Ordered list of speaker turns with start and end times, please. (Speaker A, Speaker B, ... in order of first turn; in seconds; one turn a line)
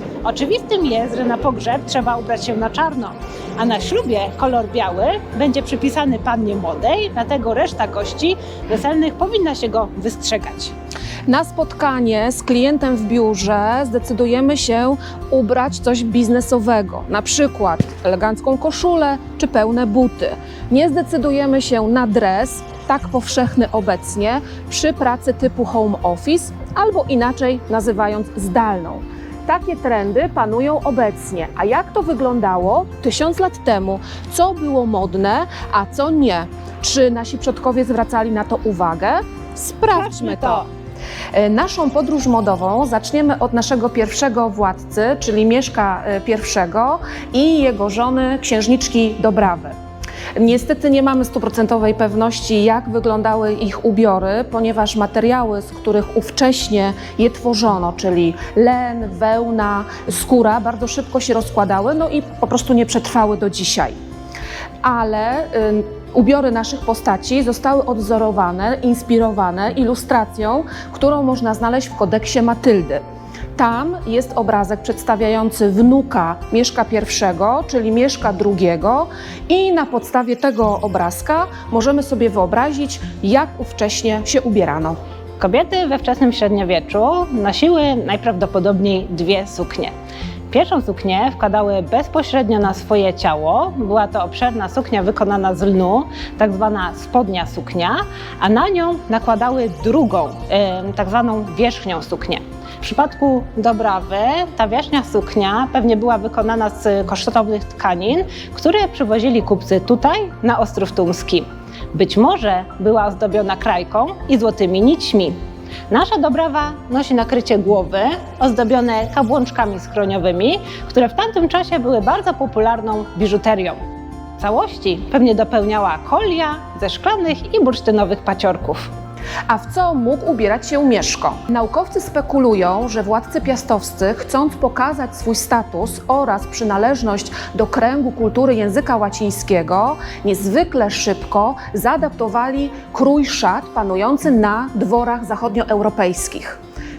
Speaker A: 0.2-10.7
Speaker B: 11.3-40.6
Speaker A: 39.9-40.7
Speaker B: 41.3-49.7
Speaker B: 50.4-64.0
Speaker B: 64.8-73.0
Speaker B: 73.6-85.0
Speaker A: 85.4-89.9
Speaker A: 90.5-115.3
Speaker A: 115.9-123.8
Speaker A: 124.4-128.9
Speaker B: 129.5-146.6